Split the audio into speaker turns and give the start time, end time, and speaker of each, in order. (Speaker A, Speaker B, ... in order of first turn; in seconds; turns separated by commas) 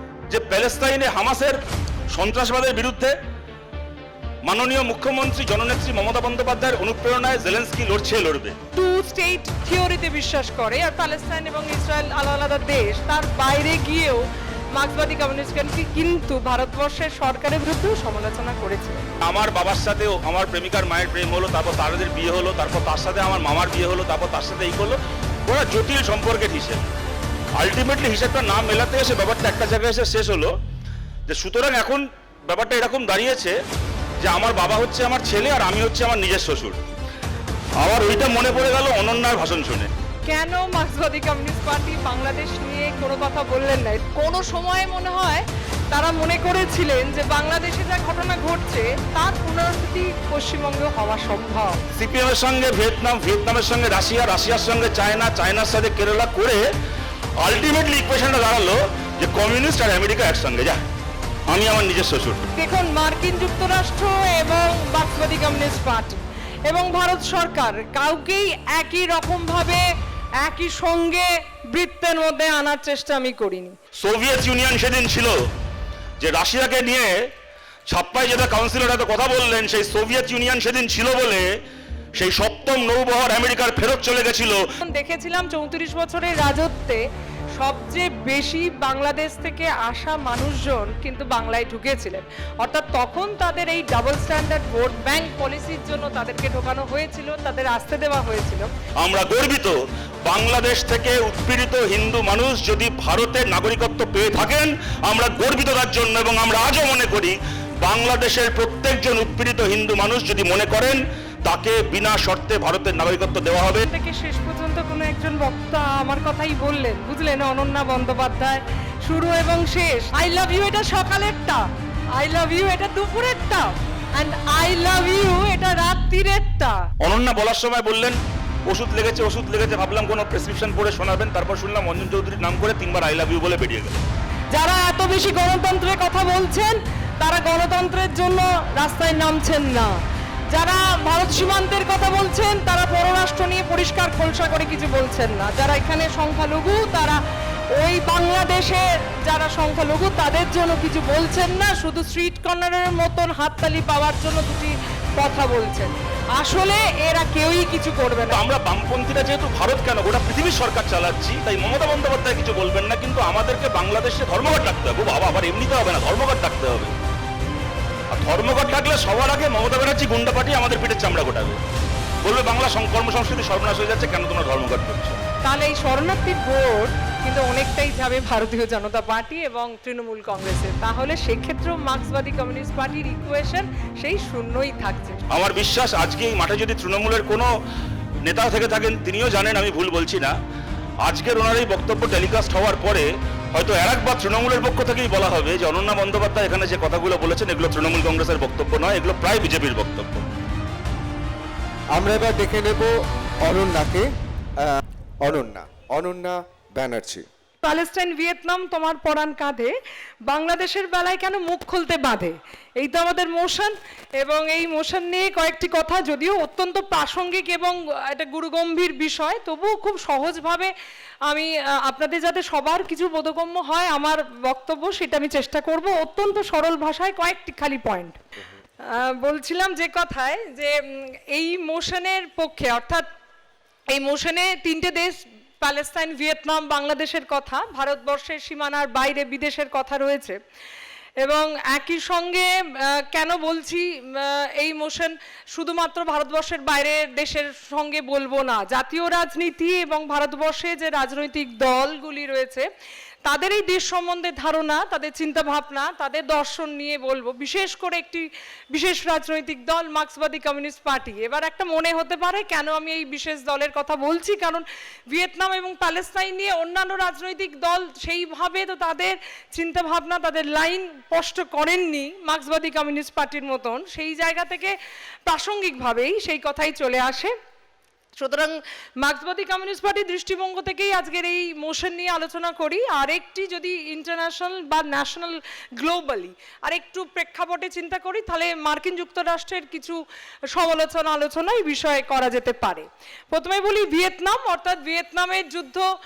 Speaker A: 0.3-1.6, Speaker A: 2.1-3.1, Speaker A: 4.4-8.6, Speaker B: 8.7-19.0, Speaker A: 19.2-26.9, Speaker A: 27.6-30.5, Speaker A: 31.3-33.6, Speaker A: 34.2-36.8, Speaker A: 37.8-39.9, Speaker B: 40.3-51.8, Speaker A: 52.0-56.6, Speaker A: 57.4-60.8, Speaker A: 61.5-62.4, Speaker B: 62.5-69.8, Speaker B: 70.4-73.8, Speaker A: 74.0-75.3, Speaker A: 76.2-77.1, Speaker A: 77.9-81.5, Speaker A: 82.1-84.6, Speaker B: 84.8-87.0, Speaker B: 87.6-98.7, Speaker A: 99.0-113.8, Speaker B: 113.8-126.8, Speaker A: 127.0-134.0, Speaker B: 134.5-140.0, Speaker B: 140.5-147.2, Speaker B: 147.8-158.4, Speaker A: 158.3-166.9, Speaker A: 168.1-171.6, Speaker A: 172.2-175.2, Speaker B: 175.4-185.2, Speaker A: 185.3-187.5, Speaker A: 188.2-190.3, Speaker A: 191.0-200.3, Speaker C: 201.9-204.1, Speaker C: 204.6-207.2, Speaker B: 207.6-209.7, Speaker B: 210.3-220.7, Speaker B: 221.3-228.2, Speaker B: 228.8-233.1, Speaker B: 233.9-240.4, Speaker B: 241.2-252.7, Speaker B: 253.2-274.7, Speaker B: 275.2-277.3, Speaker B: 278.2-290.0, Speaker B: 290.5-295.9